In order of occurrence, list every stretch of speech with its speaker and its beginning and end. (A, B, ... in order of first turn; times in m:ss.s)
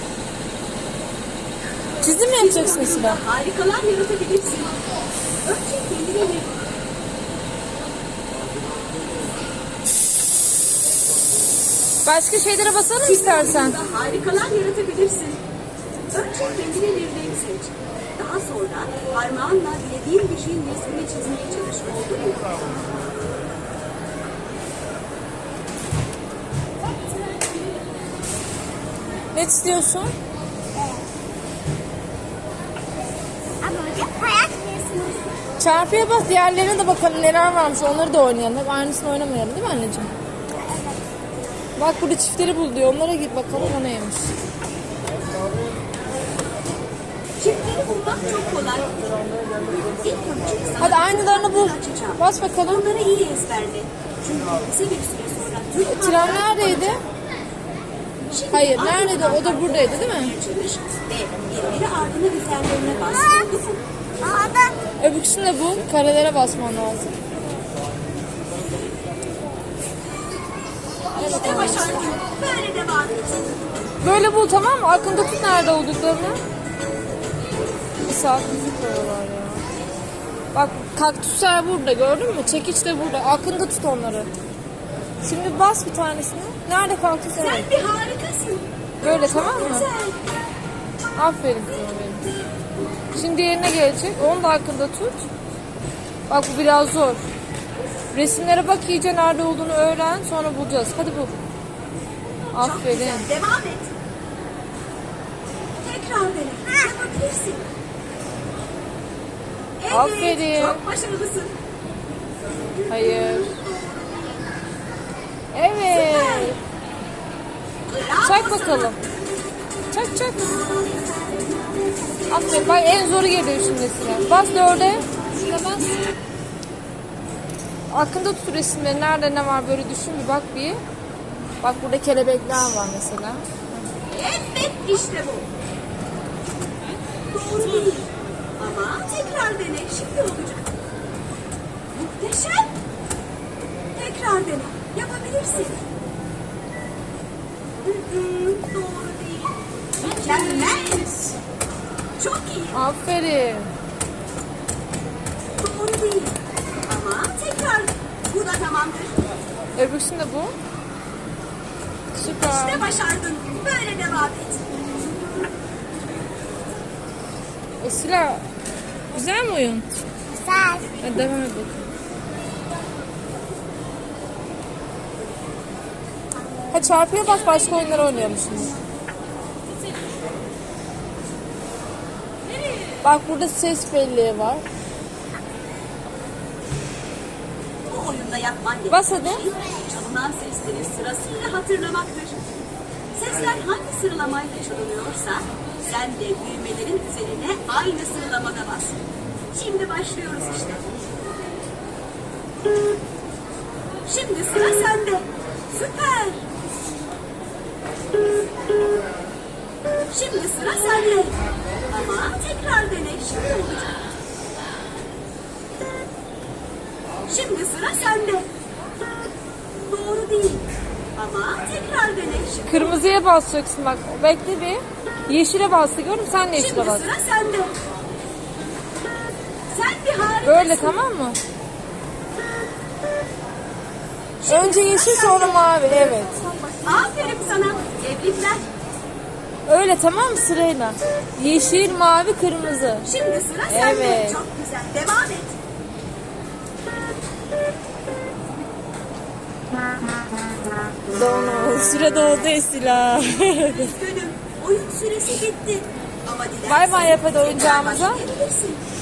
0:02.0-0:03.2 A
0:02.3-0:04.7 B
0:05.4-0:06.6 B
0:12.0-0:13.8 A
0:13.0-0:15.4 B
0:16.1-0:22.6 B
0:29.3-0:30.1 A
0:33.6-0:35.2 C
0:35.6-0:40.1 A
0:41.8-0:44.3 A
0:47.4-0:57.0 B
0:50.8-0:52.8 A
0:55.8-0:57.0 A
0:58.3-1:03.8 B
0:58.5-1:00.3 A
1:04.2-1:04.7 C
1:05.0-1:07.2 A
1:11.2-1:12.2 A
1:11.2-1:13.4 B
1:14.0-1:16.4 A
1:18.0-1:19.6 A
1:20.5-1:24.3 A
1:25.2-1:27.7 A
1:27.4-1:30.2 B
1:29.0-1:29.9 A
1:31.2-1:32.2 A
1:33.1-1:35.2 A
1:36.3-1:37.2 A
1:38.1-1:41.3 A
1:42.3-1:43.9 B
1:42.5-1:43.3 A
1:45.8-1:47.6 B
1:49.8-1:51.6 B
1:49.9-1:50.8 A
1:52.7-1:54.0 B
1:52.9-1:53.6 A
1:55.5-1:56.6 A
1:55.9-1:56.6 B
1:57.9-1:59.1 B
1:58.2-1:59.0 A
1:59.9-2:00.6 A
2:00.7-2:01.4 B
2:02.3-2:06.0 A
2:07.9-2:10.8 A
2:11.6-2:13.6 A
2:14.1-2:15.5 B
2:17.3-2:20.7 B
2:21.9-2:22.7 B
2:23.9-2:25.8 B
2:27.8-2:31.1 B
2:30.0-2:31.3 A
2:32.2-2:32.8 B
2:32.7-2:33.7 A
2:35.6-2:39.2 B
2:39.8-2:40.5 A
2:42.1-2:42.9 A
2:42.2-2:44.6 B
2:47.8-2:48.4 A
2:49.1-2:49.8 A
2:50.4-2:50.9 C
2:51.0-2:51.8 A
2:56.7-2:58.8 A
3:03.0-3:04.6 A
3:07.9-3:12.4 B
3:08.9-3:09.4 A
3:13.1-3:19.0 B
3:19.5-3:20.8 B
3:24.0-3:26.4 B
3:30.1-3:34.0 B
3:37.2-3:38.5 B
3:39.8-3:40.6 B
3:41.2-3:43.0 B
3:42.7-3:47.1 A
3:46.5-3:47.8 B
3:49.7-3:51.0 B
3:50.4-3:51.4 A
3:54.4-3:55.5 B
3:54.4-3:56.4 A
3:56.6-3:56.8 C
3:56.8-3:58.6 B
3:59.7-4:03.1 A
4:03.0-4:05.6 B
4:03.7-4:04.4 A
4:11.1-4:13.9 A
4:13.5-4:18.8 B
4:16.7-4:18.2 A